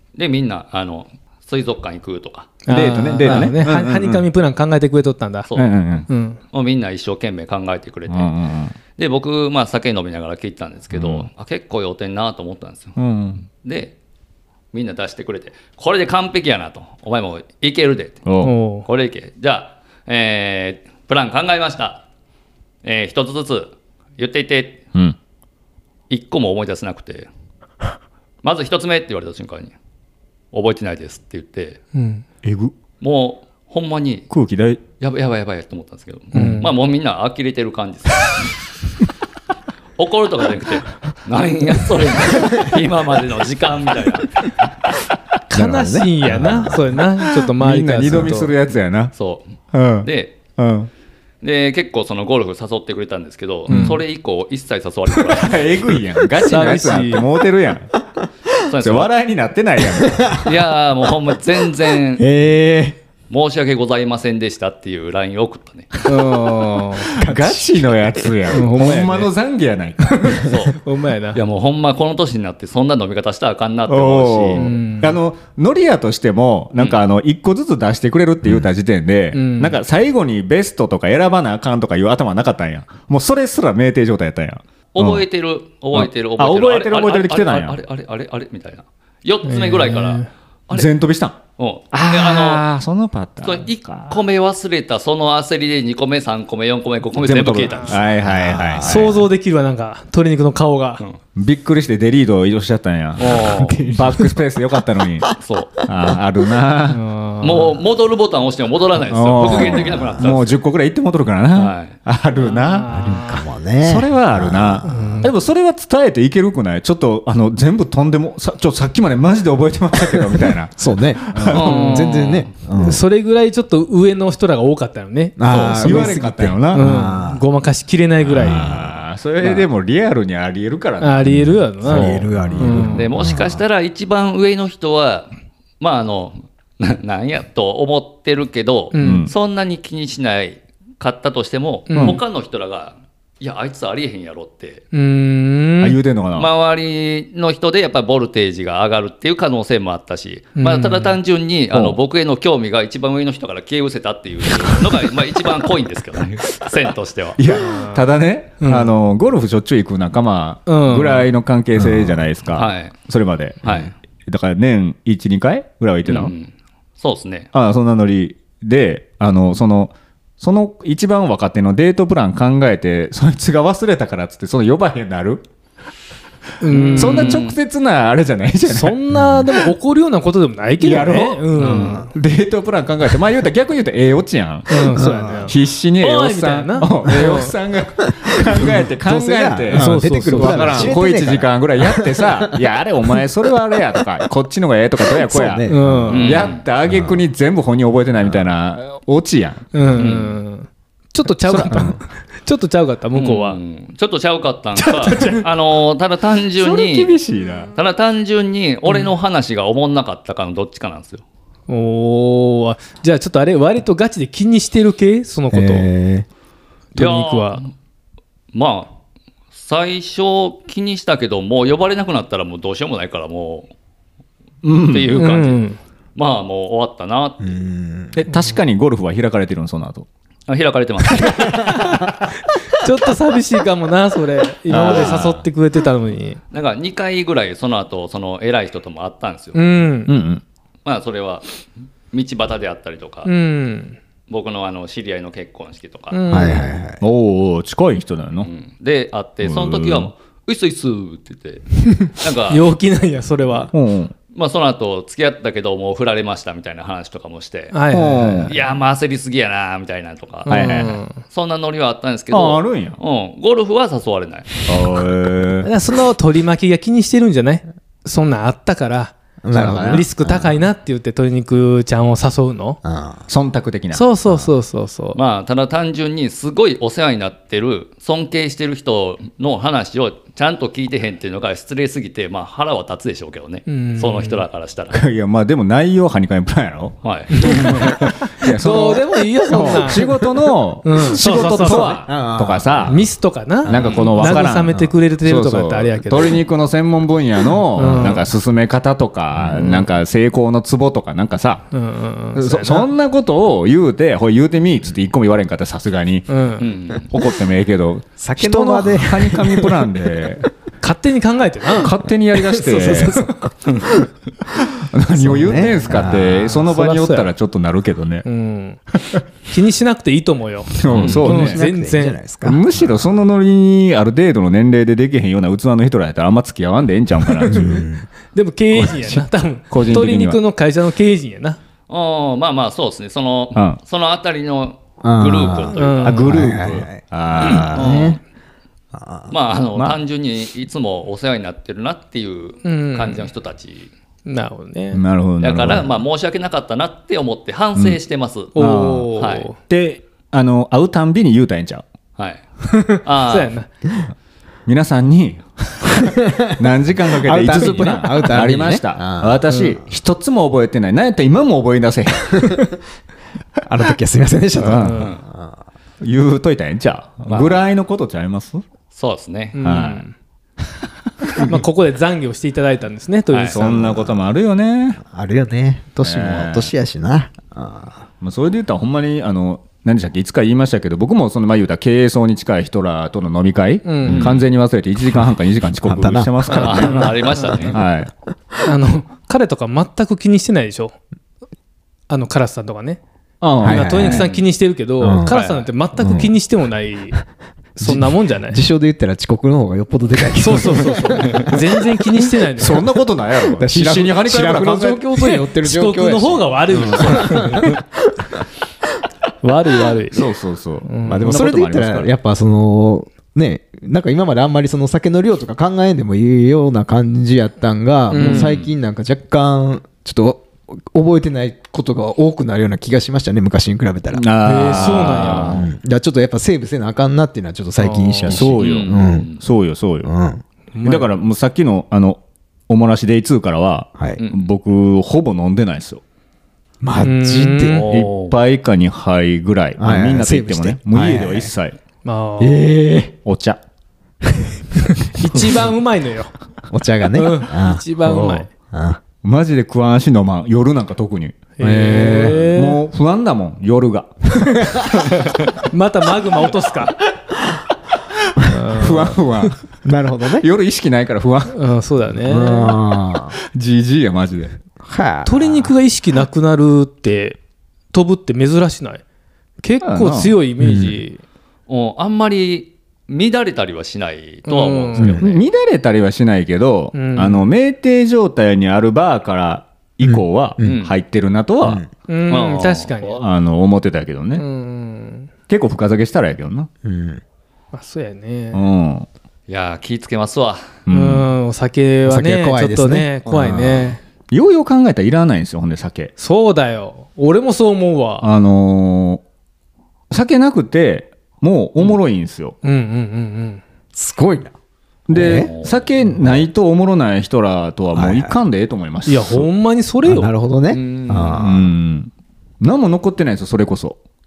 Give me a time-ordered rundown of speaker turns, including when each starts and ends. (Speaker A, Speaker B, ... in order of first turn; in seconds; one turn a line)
Speaker A: 0.1-2.6
Speaker B: 2.6-5.5
Speaker C: 2.7-4.2
Speaker D: 3.2-3.5
Speaker C: 5.5-6.1
Speaker B: 6.1-6.4
Speaker A: 6.5-8.3
Speaker C: 8.1-8.7
Speaker A: 8.9-13.9
Speaker C: 10.9-11.3
Speaker C: 13.0-13.4
Speaker A: 14.7-22.0
Speaker C: 18.2-18.5
Speaker B: 18.4-18.9
Speaker A: 22.8-24.8
Speaker A: 26.1-27.3
Speaker A: 28.4-29.7
Speaker A: 30.5-31.8
Speaker B: 31.9-32.2
Speaker C: 32.4-32.7
Speaker A: 33.0-34.3
Speaker C: 34.3-34.8
Speaker A: 35.0-38.5
Speaker B: 36.3-36.7
Speaker A: 40.0-44.4
Speaker B: 45.5-48.5
Speaker D: 45.5-46.9
Speaker C: 47.4-49.1
Speaker A: 49.1-49.4
Speaker C: 49.7-50.9
Speaker A: 50.0-50.4
Speaker A: 51.4-55.8
Speaker D: 53.7-54.0
Speaker C: 55.2-57.9
Speaker B: 56.3-57.3
Speaker A: 58.6-59.1
Speaker C: 58.8-60.5
Speaker D: 60.0-60.5
Speaker A: 60.3-62.3
Speaker D: 62.1-63.0
Speaker A: 63.3-65.9
Speaker C: 66.0-70.5
Speaker B: 66.0-67.1
Speaker D: 67.2-68.2
Speaker B: 68.5-69.3
Speaker A: 70.3-70.8
Speaker B: 70.8-71.4
Speaker A: 71.3-74.7
Speaker C: 73.9-85.2
Speaker B: 74.5-75.2
Speaker B: 79.3-79.8
Speaker A: 84.9-90.9
Speaker C: 85.9-87.8
Speaker B: 89.4-90.3
Speaker C: 90.7-91.4
Speaker A: 91.6-92.6
Speaker C: 91.9-94.2
Speaker A: 93.4-98.0
Speaker C: 97.2-99.2
Speaker D: 98.2-99.2
Speaker B: 98.8-101.0
Speaker C: 101.3-105.3
Speaker A: 103.2-103.8
Speaker D: 103.3-104.4
Speaker A: 105.4-105.8
Speaker C: 105.8-107.0
Speaker B: 106.9-107.8
Speaker A: 107.4-110.6
Speaker C: 109.1-113.0
Speaker A: 111.5-111.9
Speaker B: 112.3-113.5
Speaker D: 112.9-115.1
Speaker C: 113.8-121.8
Speaker B: 114.8-115.3
Speaker D: 120.2-123.0
Speaker A: 121.5-122.5
Speaker B: 121.7-122.1
Speaker B: 122.8-126.2
Speaker D: 125.4-127.4
Speaker A: 125.5-125.9
Speaker C: 125.5-126.9
Speaker B: 126.7-128.8
Speaker C: 128.3-132.9
Speaker D: 128.4-128.9
Speaker B: 131.0-133.1
Speaker D: 131.2-133.6
Speaker A: 132.9-144.8
Speaker B: 138.9-139.2
Speaker C: 138.9-139.3
Speaker B: 141.9-142.2
Speaker B: 144.9-146.0
Speaker C: 145.8-146.5
Speaker A: 146.3-157.4
Speaker B: 150.6-151.2
Speaker C: 151.7-152.0
Speaker C: 157.4-166.3
Speaker B: 157.5-158.0
Speaker B: 158.6-158.9
Speaker B: 160.7-161.3
Speaker D: 161.8-162.2
Speaker A: 162.5-163.0
Speaker A: 163.6-163.9
Speaker A: 166.0-167.5
Speaker C: 167.5-175.4
Speaker B: 176.6-177.5
Speaker A: 176.7-177.6
Speaker C: 176.9-179.0
Speaker B: 178.7-182.1
Speaker D: 179.1-179.4
Speaker C: 180.8-199.7
Speaker A: 181.6-182.0
Speaker B: 184.7-187.5
Speaker D: 184.9-185.5
Speaker D: 188.2-193.2
Speaker B: 189.7-191.0
Speaker D: 195.0-196.3
Speaker B: 195.7-196.4
Speaker A: 196.1-196.6
Speaker D: 196.9-197.2
Speaker B: 199.7-203.6
Speaker A: 200.0-200.4
Speaker C: 201.4-201.9
Speaker D: 201.7-202.0
Speaker A: 203.1-207.1
Speaker B: 204.8-205.4
Speaker C: 206.6-207.7
Speaker A: 207.7-211.2
Speaker B: 211.7-215.9
Speaker D: 215.5-216.2
Speaker B: 216.9-217.6
Speaker A: 216.9-217.7
Speaker A: 218.5-218.9
Speaker A: 219.5-223.7
Speaker C: 224.6-225.2
Speaker A: 224.9-225.6
Speaker B: 225.2-225.8
Speaker A: 226.2-227.6
Speaker D: 227.4-228.2
Speaker C: 228.1-230.1
Speaker A: 230.5-231.9
Speaker B: 232.7-236.4
Speaker C: 234.7-235.4
Speaker A: 234.7-235.3
Speaker A: 236.5-239.6
Speaker B: 239.5-240.1
Speaker C: 240.1-240.4
Speaker A: 240.8-241.6
Speaker A: 242.1-243.3
Speaker B: 243.2-244.0
Speaker A: 244.3-246.2
Speaker B: 246.1-246.8
Speaker D: 246.3-247.0
Speaker C: 247.0-248.5
Speaker A: 248.4-252.7
Speaker C: 249.4-250.1
Speaker B: 252.5-253.7
Speaker C: 253.7-254.1
Speaker A: 254.3-257.8
Speaker B: 257.7-258.5
Speaker C: 257.9-258.5
Speaker A: 258.4-264.6
Speaker B: 260.4-261.2
Speaker C: 260.5-261.0
Speaker C: 262.3-263.0
Speaker C: 264.6-265.7
Speaker B: 265.6-272.8
Speaker D: 269.4-270.5
Speaker C: 269.6-270.0
Speaker D: 272.8-273.2
Speaker C: 273.3-274.1
Speaker B: 273.9-275.2
Speaker A: 275.1-285.0
Speaker B: 283.7-284.4
Speaker C: 284.9-293.0
Speaker A: 287.0-288.0
Speaker B: 287.3-290.1
Speaker B: 290.8-291.9
Speaker D: 291.2-293.0
Speaker B: 292.9-296.4
Speaker C: 293.6-301.6
Speaker A: 293.7-294.4
Speaker B: 297.7-298.3
Speaker D: 297.8-298.2
Speaker D: 299.4-299.8
Speaker B: 301.7-302.9
Speaker C: 302.3-306.3
Speaker B: 306.3-306.6
Speaker A: 306.6-307.1
Speaker C: 307.1-310.5
Speaker D: 308.2-309.9
Speaker B: 310.8-312.0
Speaker C: 311.8-313.3
Speaker D: 312.4-313.9
Speaker B: 312.5-313.4
Speaker A: 313.6-313.9
Speaker C: 314.8-318.2
Speaker D: 315.1-316.7
Speaker B: 316.6-317.3
Speaker B: 318.2-318.8
Speaker B: 319.5-322.2
Speaker C: 320.8-321.6
Speaker A: 320.9-321.3
Speaker D: 321.0-323.1
Speaker C: 322.4-327.9
Speaker D: 327.4-328.1
Speaker B: 327.5-331.6
Speaker D: 328.8-329.2
Speaker C: 329.7-330.4
Speaker A: 331.9-336.4
Speaker D: 335.0-338.2
Speaker B: 335.7-336.2
Speaker C: 336.0-337.9
Speaker A: 337.4-338.2
Speaker D: 338.9-339.3
Speaker A: 339.3-343.9
Speaker B: 342.6-343.3
Speaker B: 344.2-345.0
Speaker C: 344.9-345.9
Speaker A: 345.4-348.6
Speaker B: 348.5-349.6
Speaker C: 348.6-351.8
Speaker A: 349.2-349.5
Speaker B: 352.6-353.7
Speaker A: 353.0-353.5
Speaker C: 354.6-362.7
Speaker D: 356.0-356.4
Speaker D: 357.2-359.7
Speaker D: 363.6-365.6
Speaker C: 364.6-365.2
Speaker C: 366.0-368.6
Speaker A: 367.3-367.6
Speaker A: 368.9-369.6
Speaker B: 369.5-370.1
Speaker C: 369.6-370.1
Speaker C: 371.2-371.6
Speaker B: 371.3-373.6
Speaker A: 373.3-373.6
Speaker C: 373.5-375.0
Speaker D: 373.6-374.1
Speaker D: 375.0-378.0
Speaker C: 376.0-376.7
Speaker C: 378.2-388.1
Speaker B: 383.8-384.3
Speaker A: 384.0-384.4
Speaker D: 385.8-386.6
Speaker A: 386.5-387.8
Speaker B: 386.5-387.7
Speaker B: 388.6-390.9
Speaker B: 392.1-393.0
Speaker C: 393.4-394.1
Speaker D: 393.6-394.3
Speaker B: 393.6-397.2
Speaker A: 394.0-394.5
Speaker D: 395.0-395.4
Speaker A: 395.2-395.7
Speaker D: 396.0-396.3
Speaker B: 397.8-398.6
Speaker D: 397.8-402.2
Speaker B: 400.4-402.9
Speaker C: 400.4-401.5
Speaker C: 402.6-405.1
Speaker D: 403.4-408.4
Speaker B: 405.2-407.8
Speaker B: 409.4-410.2
Speaker C: 410.1-412.1
Speaker B: 410.8-411.3
Speaker D: 411.0-429.3
Speaker B: 418.1-418.6
Speaker A: 418.2-418.7
Speaker C: 424.1-425.6
Speaker B: 424.4-425.6
Speaker A: 425.1-425.5
Speaker B: 427.8-428.4
Speaker A: 428.3-429.4
Speaker C: 428.3-430.1
Speaker D: 430.0-430.4
Speaker B: 430.7-431.1
Speaker C: 430.8-436.0
Speaker D: 436.8-437.9
Speaker B: 437.0-437.8
Speaker A: 437.7-438.4
Speaker C: 437.9-441.8
Speaker D: 439.8-441.5
Speaker B: 442.0-442.9
Speaker D: 442.4-443.1
Speaker C: 443.2-443.6
Speaker B: 445.1-446.3
Speaker D: 446.7-449.0
Speaker B: 447.1-448.5
Speaker C: 449.2-455.5
Speaker B: 451.6-452.8
Speaker D: 451.6-452.5
Speaker B: 455.6-456.9
Speaker C: 458.3-459.7
Speaker B: 458.5-459.2
Speaker D: 459.8-460.4
Speaker C: 460.4-461.6
Speaker B: 461.5-462.8
Speaker D: 462.2-463.4
Speaker C: 463.5-464.6
Speaker D: 464.8-465.7
Speaker B: 465.2-467.4
Speaker B: 467.9-469.0
Speaker B: 469.6-471.2
Speaker C: 469.8-470.4
Speaker D: 470.6-471.0
Speaker A: 471.7-475.4
Speaker B: 474.4-475.2
Speaker D: 475.0-475.3
Speaker C: 475.1-481.8
Speaker B: 476.9-477.5
Speaker D: 480.0-480.8
Speaker A: 480.6-481.0
Speaker D: 481.6-481.9
Speaker B: 482.1-483.2
Speaker A: 482.3-483.0
Speaker C: 483.0-484.4
Speaker B: 484.4-485.3
Speaker C: 485.5-486.7
Speaker D: 486.8-487.2
Speaker B: 487.7-488.6
Speaker C: 488.5-489.1
Speaker A: 489.5-490.8
Speaker C: 490.9-491.2
Speaker B: 490.9-494.0
Speaker D: 492.1-493.9
Speaker C: 494.3-496.1
Speaker B: 496.2-498.2
Speaker C: 498.2-499.2
Speaker C: 500.1-502.6
Speaker B: 502.6-503.6
Speaker D: 503.9-504.5
Speaker C: 505.1-509.5
Speaker D: 505.1-505.5
Speaker A: 505.2-505.8
Speaker D: 506.1-506.4
Speaker D: 507.9-508.4
Speaker B: 509.1-510.3
Speaker D: 510.0-511.7
Speaker A: 510.7-511.4
Speaker C: 511.3-514.0